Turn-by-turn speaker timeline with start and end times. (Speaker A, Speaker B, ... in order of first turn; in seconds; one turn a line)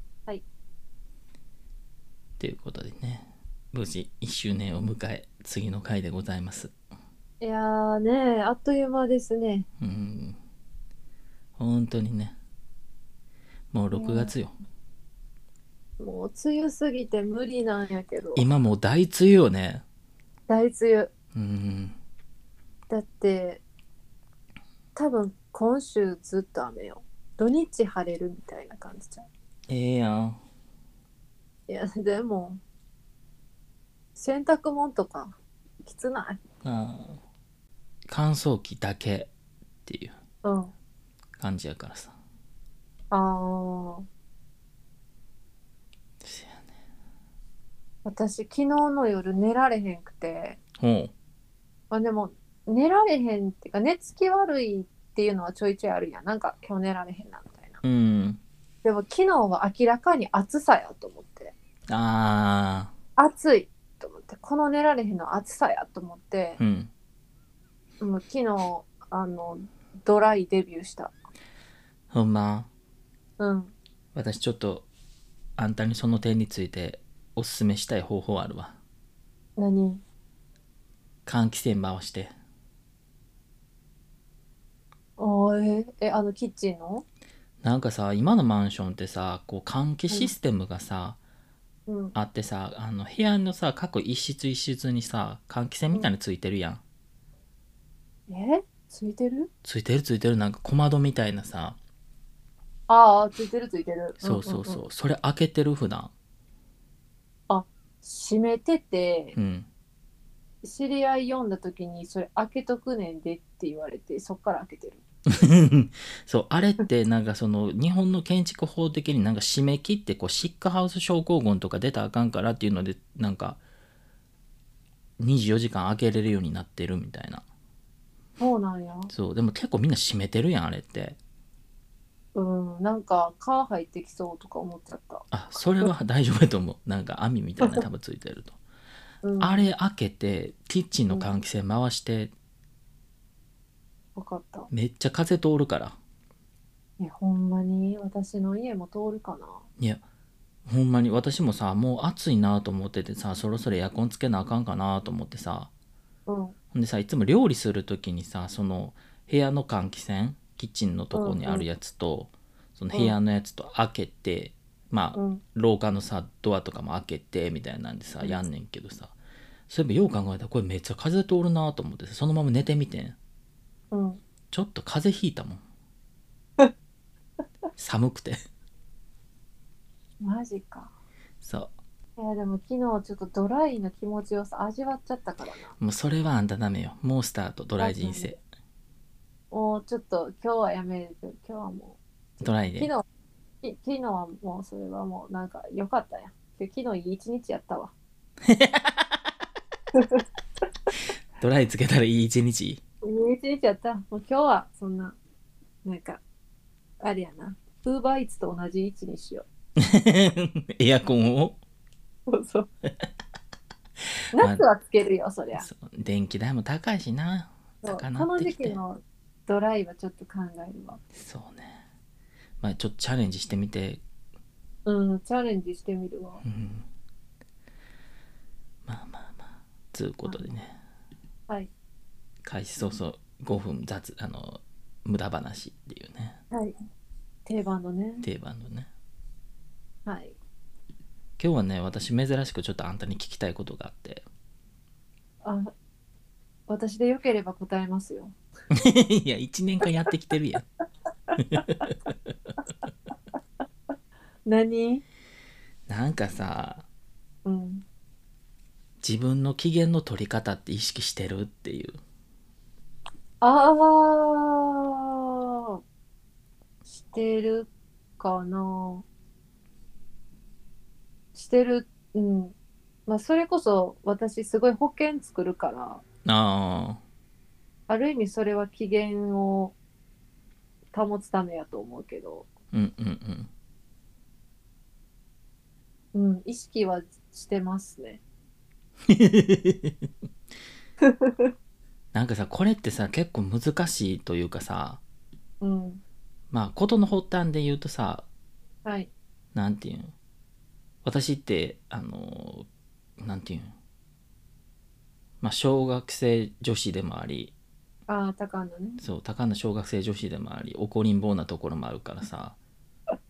Speaker A: 2.4-6.7
Speaker B: 7.4-9.7
Speaker A: 9.8-10.4
Speaker A: 11.6-12.4
Speaker A: 13.7-14.5
Speaker B: 13.9-14.3
Speaker B: 16.0-18.5
Speaker A: 18.4-19.8
Speaker B: 20.5-21.1
Speaker A: 21.3-22.0
Speaker B: 22.9-23.6
Speaker B: 25.0-29.3
Speaker A: 29.7-30.4
Speaker B: 31.7-32.6
Speaker B: 34.2-36.4
Speaker A: 36.6-37.2
Speaker A: 38.1-39.3
Speaker A: 39.9-40.1
Speaker B: 40.4-40.7
Speaker A: 41.4-42.1
Speaker B: 43.1-44.1
Speaker A: 46.2-46.7
Speaker B: 48.0-50.6
Speaker A: 50.8-51.1
Speaker B: 51.9-57.8
Speaker A: 57.8-58.4
Speaker B: 58.8-61.5
Speaker A: 61.9-62.9
Speaker B: 63.2-66.6
Speaker A: 66.6-66.9
Speaker B: 68.0-71.1
Speaker A: 72.1-72.7
Speaker B: 73.4-73.7
Speaker A: 74.2-74.9
Speaker A: 75.6-78.8
Speaker B: 79.6-80.0
Speaker A: 81.3-82.3
Speaker B: 85.2-87.0
Speaker A: 87.6-91.2
Speaker B: 91.9-92.2
Speaker A: 92.2-96.8
Speaker B: 98.3-99.5
Speaker A: 99.6-101.8
Speaker B: 102.9-104.8
Speaker A: 104.2-106.1
Speaker B: 107.5-109.4
Speaker A: 109.3-109.7
Speaker B: 110.6-115.0
Speaker A: 115.3-123.6
Speaker A: 125.2-127.4
Speaker B: 128.4-129.1
Speaker A: 129.1-131.2
Speaker B: 132.3-135.9
Speaker A: 135.3-138.6
Speaker B: 139.2-139.7
Speaker A: 139.4-142.3
Speaker B: 144.2-144.7
Speaker A: 144.7-146.0
Speaker B: 147.0-149.7
Speaker A: 149.8-150.0
Speaker A: 150.7-155.7
Speaker B: 156.3-156.6
Speaker A: 156.7-169.1
Speaker B: 161.1-161.7
Speaker B: 165.2-165.4
Speaker A: 169.7-173.2
Speaker B: 173.9-174.2
Speaker A: 174.5-175.6
Speaker A: 177.8-178.4
Speaker B: 180.2-180.9
Speaker A: 181.4-181.7
Speaker B: 182.2-185.8
Speaker A: 185.8-188.4
Speaker B: 187.8-188.4
Speaker B: 189.5-192.0
Speaker A: 192.4-192.9
Speaker B: 192.8-193.0
Speaker B: 193.6-197.9
Speaker A: 198.4-199.3
Speaker B: 199.9-200.2
Speaker A: 201.4-202.8
Speaker B: 203.0-205.2
Speaker B: 205.8-206.2
Speaker B: 207.0-209.4
Speaker A: 209.8-211.6
Speaker B: 212.3-212.7
Speaker B: 214.3-215.7
Speaker A: 214.4-214.6
Speaker A: 215.6-218.8
Speaker B: 217.8-221.0
Speaker A: 221.1-221.8
Speaker A: 222.6-224.0
Speaker B: 224.9-226.4
Speaker A: 226.4-226.9
Speaker A: 228.9-230.8
Speaker A: 232.4-236.4
Speaker B: 237.5-238.3
Speaker A: 238.2-238.9
Speaker B: 240.1-240.4
Speaker A: 241.4-244.2
Speaker B: 245.4-245.7
Speaker B: 246.7-248.3
Speaker A: 248.7-250.6
Speaker B: 251.3-251.8
Speaker A: 251.4-252.1
Speaker B: 254.4-255.0
Speaker A: 255.9-256.9
Speaker B: 257.4-257.9
Speaker A: 259.0-262.0
Speaker B: 263.4-265.8
Speaker B: 266.9-269.1
Speaker B: 271.3-272.6
Speaker B: 273.1-276.0
Speaker A: 276.2-277.0
Speaker B: 277.9-279.8
Speaker B: 280.9-282.5
Speaker A: 282.7-283.5
Speaker B: 286.1-288.2
Speaker A: 289.1-290.0
Speaker B: 291.0-291.5
Speaker A: 292.1-295.0
Speaker B: 295.6-296.0
Speaker A: 296.5-298.2
Speaker B: 298.9-299.1
Speaker A: 299.5-300.1
Speaker A: 301.0-302.7
Speaker A: 303.2-303.7
Speaker A: 305.4-307.5
Speaker B: 308.1-309.0
Speaker A: 309.0-312.6